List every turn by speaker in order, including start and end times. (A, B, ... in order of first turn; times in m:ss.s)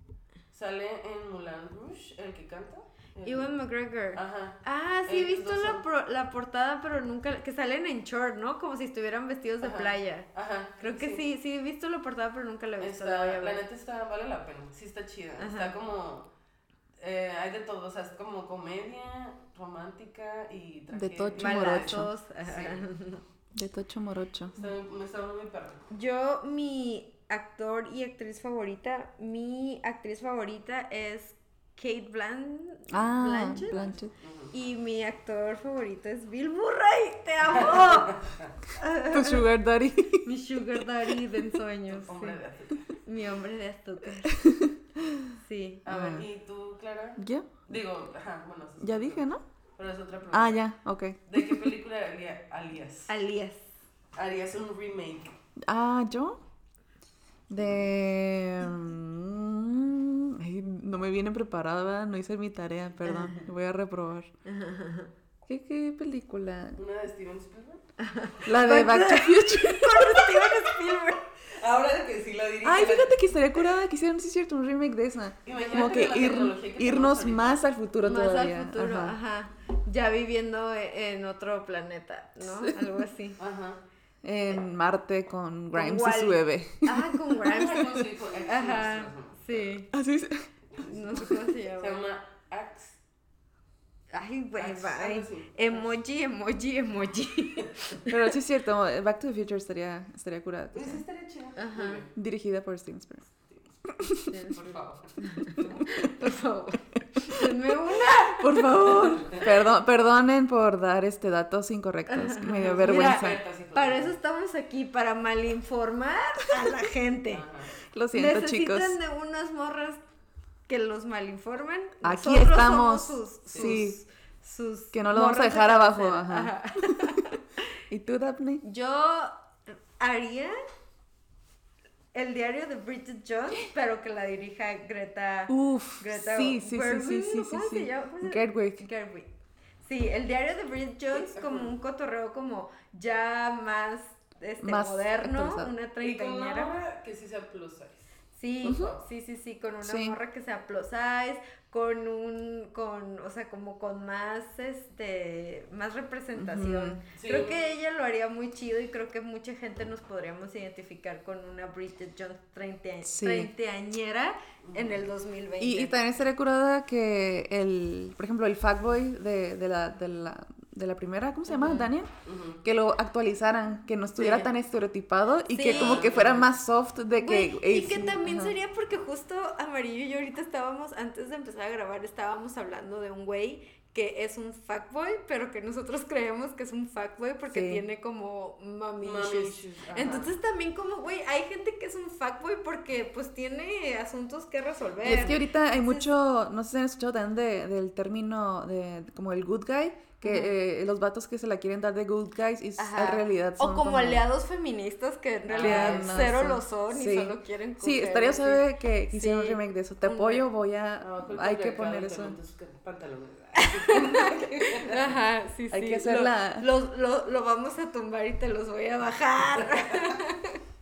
0:00.5-0:03.5 A
0:03.2-0:10.3 B
0:04.1-0:05.8 A
0:09.6-0:11.2 A
0:10.8-0:13.6 B
0:12.8-0:16.3 A
0:15.4-0:15.7 B
0:17.0-0:22.8 A
0:20.9-0:22.1 C
0:21.4-0:23.2 B
0:23.5-0:24.6 C
0:24.6-0:25.8 A
0:25.9-0:33.8 B
0:32.9-0:34.1 C
0:33.7-0:34.5 A
0:34.5-0:38.2 B
0:37.5-0:38.5 A
0:38.7-0:39.4 B
0:39.1-0:40.2 C
0:40.2-0:42.4 B
0:41.9-0:43.0 A
0:43.0-0:44.4 B
0:44.3-0:45.3 C
0:45.3-0:45.8 B
0:45.8-0:50.6 A
0:45.9-0:46.2 C
0:47.2-0:47.6 C
0:48.8-0:49.4 C
0:50.3-0:51.7 C
0:51.3-0:53.1 A
0:53.1-0:53.7 B
0:54.1-0:55.4 A
0:55.6-0:56.4 C
0:57.5-1:04.3 C
1:04.4-1:05.1 B
1:05.5-1:06.8 C
1:06.8-1:07.8 A
1:08.0-1:11.2 B
1:08.4-1:10.5 C
1:11.4-1:13.2 A
1:12.6-1:19.1 C
1:15.4-1:17.6 A
1:18.0-1:23.4 B
1:22.4-1:22.8 C
1:23.4-1:23.8 A
1:24.2-1:27.2 C
1:25.7-1:29.9 B
1:27.4-1:29.8 A
1:29.9-1:30.5 C
1:30.7-1:33.0 A
1:30.8-1:32.1 B
1:34.1-1:38.2 B
1:34.6-1:35.8 A
1:38.1-1:41.0 C
1:40.7-1:42.1 A
1:41.6-1:42.0 B
1:42.1-1:43.3 C
1:43.5-1:43.7 A
1:43.9-1:44.3 C
1:44.3-1:44.6 B
1:44.5-1:45.8 A
1:45.2-1:48.8 B
1:45.6-1:45.8 C
1:48.4-1:53.4 C
1:49.0-1:49.5 A
1:52.1-1:57.5 B
1:52.7-1:54.1 A
1:57.3-1:57.7 A
1:57.9-1:59.0 C
1:58.1-2:00.0 B
2:00.7-2:07.4 B
2:02.0-2:04.0 C
2:03.5-2:03.8 A
2:04.9-2:07.1 C
2:07.9-2:08.6 C
2:08.6-2:10.6 B
2:12.1-2:19.3 B
2:15.5-2:18.8 C
2:19.8-2:26.8 B
2:21.1-2:21.7 A
2:24.6-2:25.7 C
2:26.0-2:28.1 A
2:28.3-2:46.0 B
2:28.6-2:28.9 C
2:28.6-2:29.0 A
2:29.8-2:30.2 C
2:36.4-2:37.0 C
2:37.1-2:37.6 A
2:43.0-2:43.5 C
2:44.6-2:45.0 A
2:45.6-2:52.1 C
2:51.5-2:51.9 B
2:52.2-2:52.6 A
2:52.6-2:58.5 C
2:54.2-2:54.5 A
2:55.5-2:56.1 B
2:55.6-2:56.5 A
2:57.2-3:16.1 B
3:07.5-3:07.8 C
3:09.0-3:10.3 A
3:15.0-3:15.3 A
3:15.0-3:24.3 C
3:20.2-3:20.5 B
3:22.8-3:30.4 B
3:25.5-3:26.3 A
3:25.6-3:32.4 C
3:31.0-3:35.1 A
3:33.6-3:40.6 B
3:35.7-3:36.7 C